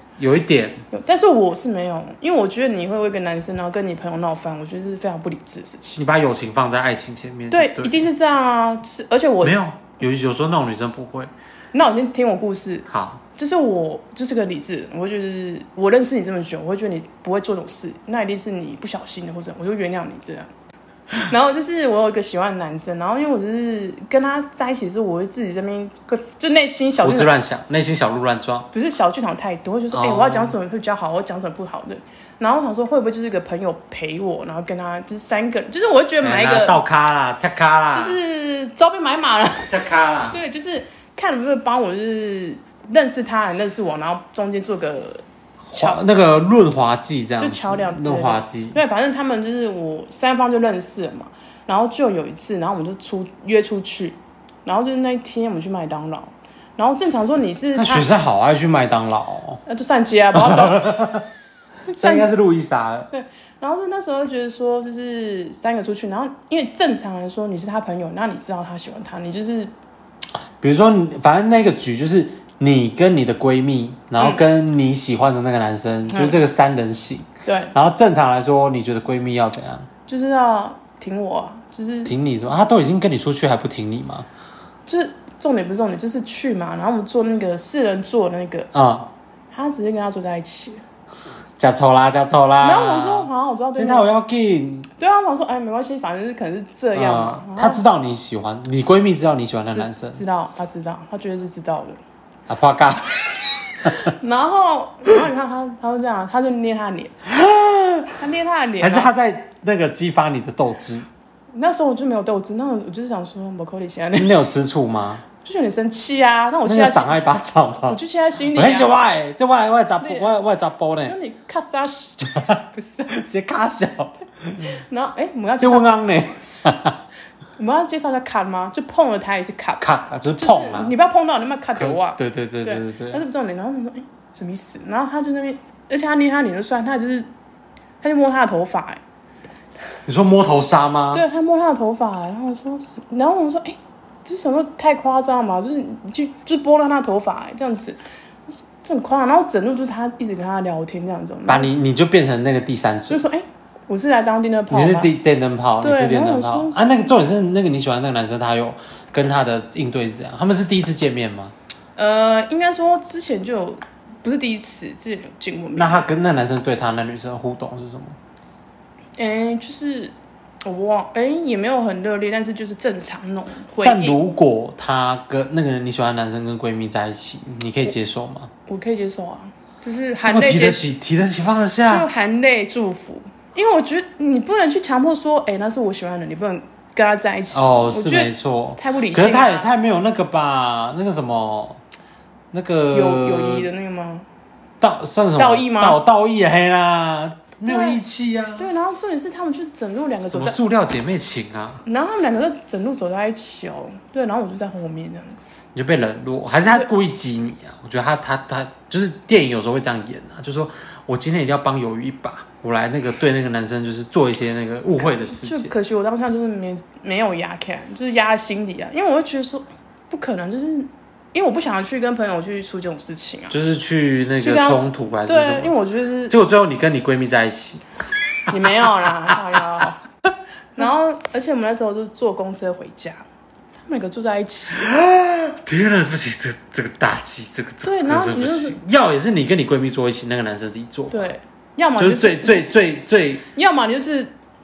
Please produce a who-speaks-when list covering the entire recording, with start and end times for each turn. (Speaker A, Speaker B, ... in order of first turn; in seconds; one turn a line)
Speaker A: 0.2-0.8
Speaker B: 0.9-6.0
Speaker A: 6.0-8.0
Speaker B: 7.5-9.6
Speaker A: 9.4-11.3
Speaker B: 11.7-20.5
Speaker A: 12.9-13.2
Speaker B: 21.2-27.3
Speaker A: 27.0-28.7
Speaker B: 28.7-36.8
Speaker A: 29.9-30.5
Speaker A: 36.2-38.2
Speaker B: 37.9-39.8
Speaker A: 39.7-40.4
Speaker B: 40.3-46.0
Speaker A: 45.7-48.8
Speaker B: 47.4-58.1
Speaker A: 57.8-59.6
Speaker B: 59.6-61.1
Speaker A: 60.3-61.2
Speaker B: 61.9-62.3
Speaker A: 61.9-63.1
Speaker B: 63.1-69.7
Speaker A: 70.6-79.9
Speaker B: 74.2-74.4
Speaker B: 76.1-76.4
Speaker B: 77.5-77.7
Speaker B: 80.1-82.1
Speaker A: 82.0-84.3
Speaker B: 84.8-88.7
Speaker A: 88.7-89.1
Speaker B: 89.5-90.8
Speaker A: 91.6-94.9
Speaker B: 92.6-94.1
Speaker B: 95.0-97.8
Speaker A: 96.9-100.2
Speaker B: 99.7-102.0
Speaker A: 102.5-104.1
Speaker B: 103.8-107.1
Speaker A: 107.3-108.2
Speaker B: 108.2-109.1
Speaker A: 108.8-111.0
Speaker B: 111.5-114.3
Speaker A: 114.2-115.2
Speaker B: 115.4-117.3
Speaker A: 116.7-118.0
Speaker B: 117.9-118.9
Speaker A: 118.5-121.2
Speaker B: 120.0-120.3
Speaker B: 121.0-123.1
Speaker A: 122.3-124.8
Speaker B: 124.7-126.0
Speaker A: 125.6-127.0
Speaker B: 127.6-129.8
Speaker A: 129.8-130.9
Speaker B: 130.4-137.3
Speaker A: 131.8-133.2
Speaker B: 138.0-139.0
Speaker A: 140.1-141.2
Speaker B: 141.1-148.0
Speaker B: 148.8-151.7
Speaker A: 151.5-153.2
Speaker B: 153.1-155.1
Speaker A: 154.7-161.5
Speaker B: 155.8-157.1
Speaker B: 161.9-166.1
Speaker A: 165.8-168.2
Speaker B: 169.2-174.2
Speaker A: 173.8-178.5
Speaker B: 178.7-180.8
Speaker A: 180.2-182.1
Speaker B: 181.8-189.7
Speaker A: 187.5-191.8
Speaker A: 192.5-193.7
Speaker B: 192.9-194.2
Speaker A: 194.8-198.7
Speaker B: 195.4-196.0
Speaker B: 197.7-198.0
Speaker B: 198.6-200.6
Speaker A: 200.2-201.8
Speaker B: 201.8-205.5
Speaker A: 205.7-215.7
Speaker B: 215.0-223.5
Speaker A: 223.5-225.7
Speaker B: 224.4-226.3
Speaker A: 226.3-227.8
Speaker B: 228.5-230.0
Speaker A: 228.6-229.4
Speaker B: 230.7-233.2
Speaker B: 233.8-234.8
Speaker A: 234.7-241.3
Speaker B: 237.8-238.8
Speaker B: 241.1-242.7
Speaker A: 242.0-243.4
Speaker B: 243.5-244.3